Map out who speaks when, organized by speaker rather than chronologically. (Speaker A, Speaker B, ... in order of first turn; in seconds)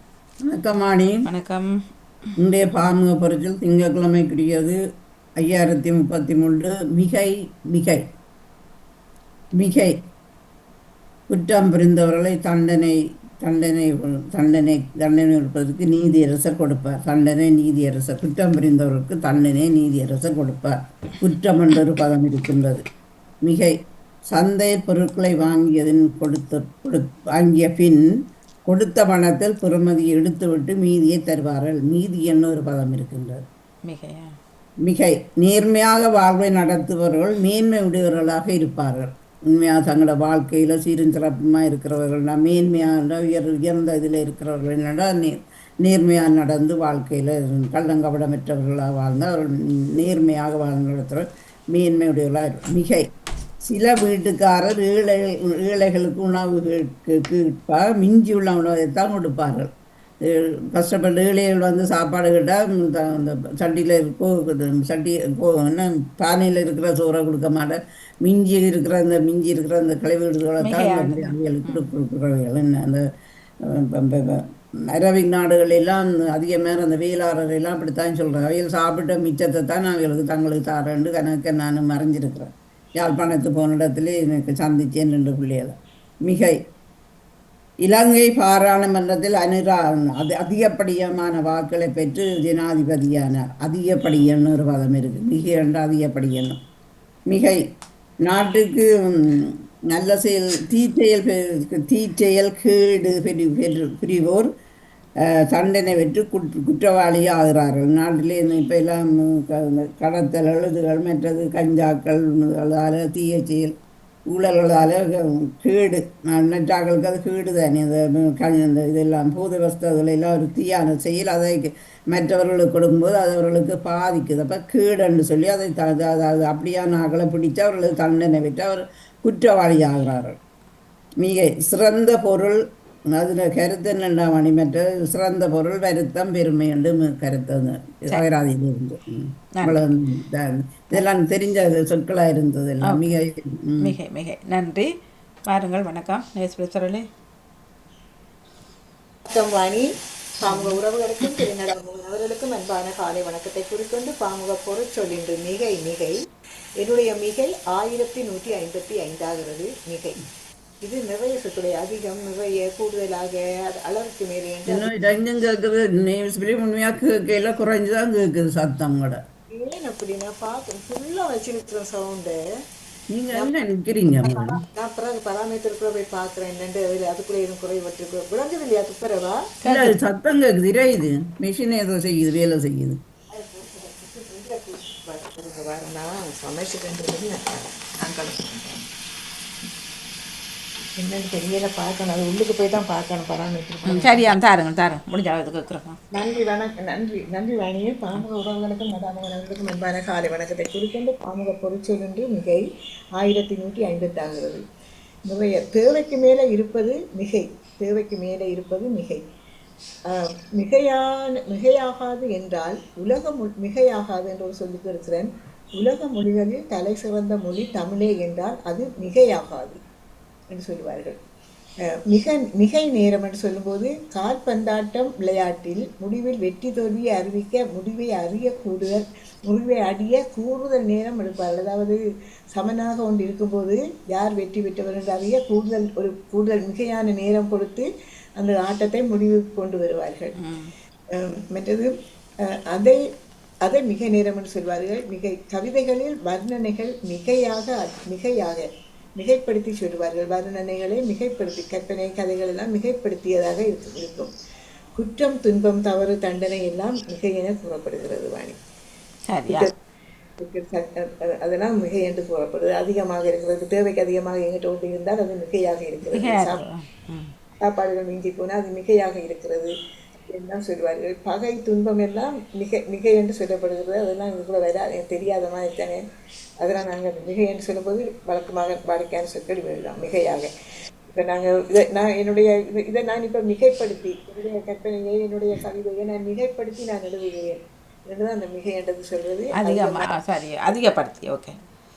Speaker A: 0.5-1.2, 2.4-4.8, 5.4-8.0, 9.6-9.9, 11.3-22.8, 23.4-23.7, 24.3-28.0, 28.7-33.4, 34.8-53.1, 53.7-59.7, 60.3-73.0, 73.7-85.8, 86.3-86.5, 87.8-96.6, 97.3-97.6, 98.3-98.9, 99.4-104.5, 105.5-113.7, 114.3-130.4, 131.2-132.6, 133.1-143.9, 164.7-169.2, 173.1-174.6, 179.7-183.0
Speaker B: 1.3-1.7, 33.9-34.3, 70.6-71.8, 143.8-144.9, 145.5-147.1, 179.6-180.0, 193.9-196.0, 240.4-240.7, 259.3-259.7, 266.1-267.3, 289.6-291.6
Speaker C: 149.3-149.9, 150.4-156.2, 156.8-160.2, 160.8-164.8, 169.5-172.4, 174.2-179.4, 183.3-188.8, 191.0-194.4, 196.1-202.6, 203.2-204.6, 205.2-209.2, 210.1-219.8, 220.5-221.2, 222.1-232.0, 232.6-237.9, 238.4-240.3, 241.2-241.9, 242.7-243.0, 243.6-248.7, 249.2-254.3, 255.0-258.6, 260.4-266.6, 267.6-269.7, 270.3-276.0, 276.6-280.5, 281.2-290.1